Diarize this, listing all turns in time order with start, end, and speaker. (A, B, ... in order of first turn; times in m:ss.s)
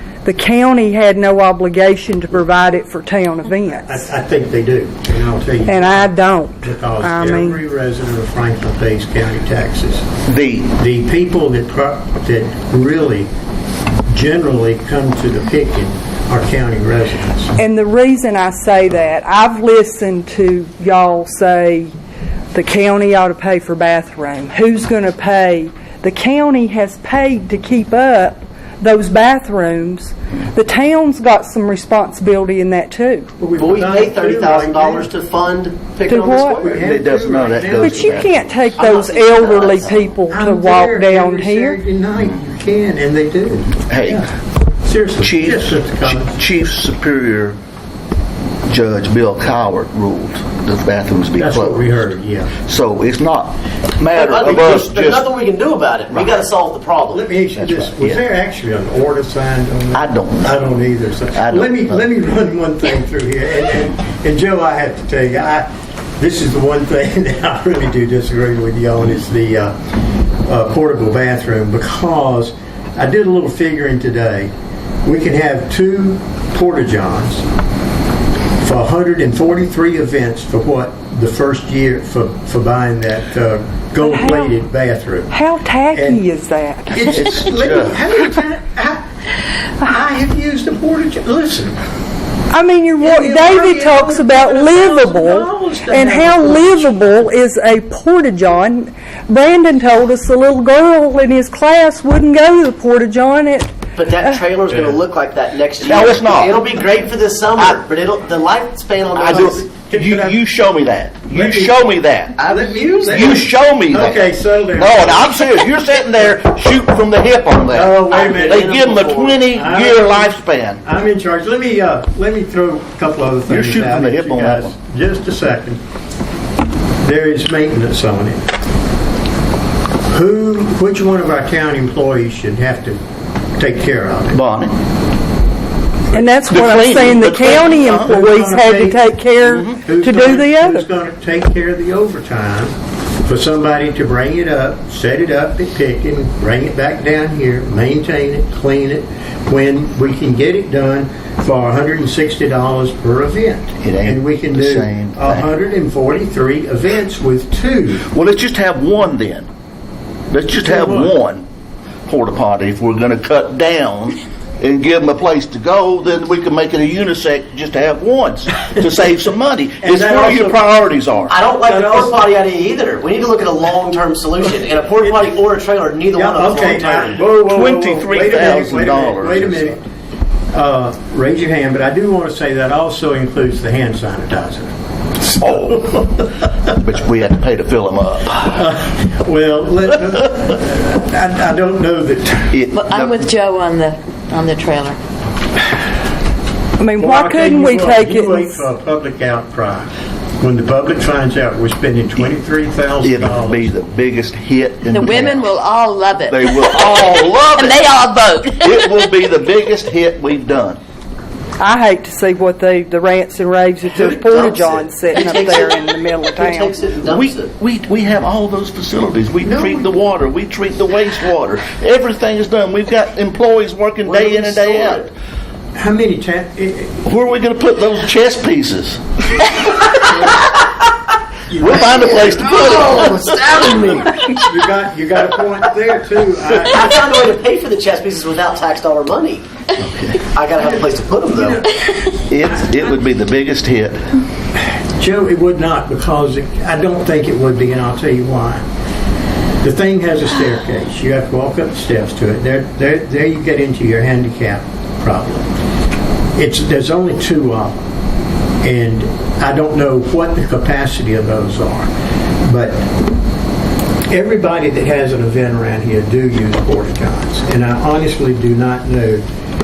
0:00.2-0:04.1 A
0:03.8-0:10.1 B
0:05.7-0:07.6 A
0:10.3-0:10.7 C
0:10.7-0:13.3 B
0:14.1-0:17.6 B
0:17.6-0:21.9 A
0:22.5-0:33.3 A
0:33.4-0:35.1 B
0:33.6-0:36.8 D
0:36.1-0:36.7 A
0:36.6-0:38.3 B
0:36.7-0:38.5 C
0:37.7-0:41.8 A
0:38.8-0:40.1 D
0:40.3-0:44.3 B
0:43.8-0:44.3 C
0:44.8-0:46.4 B
0:45.2-0:47.6 C
0:48.7-0:55.3 C
0:51.4-0:52.5 B
0:54.1-0:57.3 D
0:56.1-0:56.4 C
0:57.1-1:09.8 B
0:57.6-0:58.2 C
0:59.9-1:00.6 C
1:01.4-1:02.0 C
1:10.5-1:14.5 B
1:15.0-1:17.5 B
1:18.6-1:25.3 B
1:24.0-1:24.5 A
1:25.3-1:27.1 A
1:25.9-1:26.2 B
1:26.9-1:29.0 B
1:27.1-1:28.0 C
1:29.8-1:31.8 B
1:32.5-1:43.7 A
1:33.0-1:37.0 B
1:44.0-1:49.6 D
1:45.8-1:46.6 C
1:49.2-1:50.4 B
1:49.2-1:52.5 C
1:51.3-1:55.4 B
1:52.4-1:53.5 D
1:53.1-2:00.8 C
1:57.7-1:58.8 B
1:58.1-1:59.4 D
1:59.5-2:05.8 B
2:03.5-2:04.7 C
2:07.0-2:08.4 B
2:10.1-2:13.0 B
2:13.6-2:14.4 B
2:14.3-2:14.8 C
2:16.1-2:20.9 A
2:16.5-2:18.2 C
2:17.9-2:19.1 B
2:19.7-2:22.7 B
2:23.3-2:38.1 B
2:33.8-2:35.5 C
2:38.1-2:39.5 C
2:40.3-2:41.5 C
2:40.6-2:41.2 B
2:42.1-2:51.4 C
2:49.8-2:50.6 B
2:51.3-2:57.2 D
2:51.7-2:52.2 B
2:56.1-2:59.8 B
2:57.4-2:59.7 C
3:00.5-3:04.7 B
3:05.2-3:06.2 B
3:05.4-3:06.1 C
3:06.7-3:08.6 C
3:08.4-3:12.6 B
3:12.5-3:13.3 C
3:12.7-3:15.0 E
3:16.8-3:18.6 A
3:17.0-3:23.7 B
3:23.0-3:25.5 C
3:24.9-3:29.2 E
3:26.3-3:27.8 C
3:28.6-3:30.8 C
3:31.6-3:36.8 A
3:33.8-3:37.5 D
3:37.0-3:45.1 C
3:39.4-3:39.8 B
3:44.0-3:45.1 D
3:45.8-3:47.0 B
3:47.0-3:49.0 C
3:50.0-3:50.5 B
3:51.5-3:52.7 B
3:51.5-3:53.7 C
3:51.8-3:54.4 D
3:54.1-3:56.9 B
3:56.6-3:59.4 D
3:59.8-4:00.2 C
4:00.2-4:01.6 D
4:01.3-4:02.1 B
4:02.3-4:04.1 C
4:05.0-4:08.6 B
4:09.6-4:15.5 B
4:16.4-4:17.8 B
4:18.6-4:21.9 B
4:22.4-4:22.9 B
4:24.1-4:29.2 B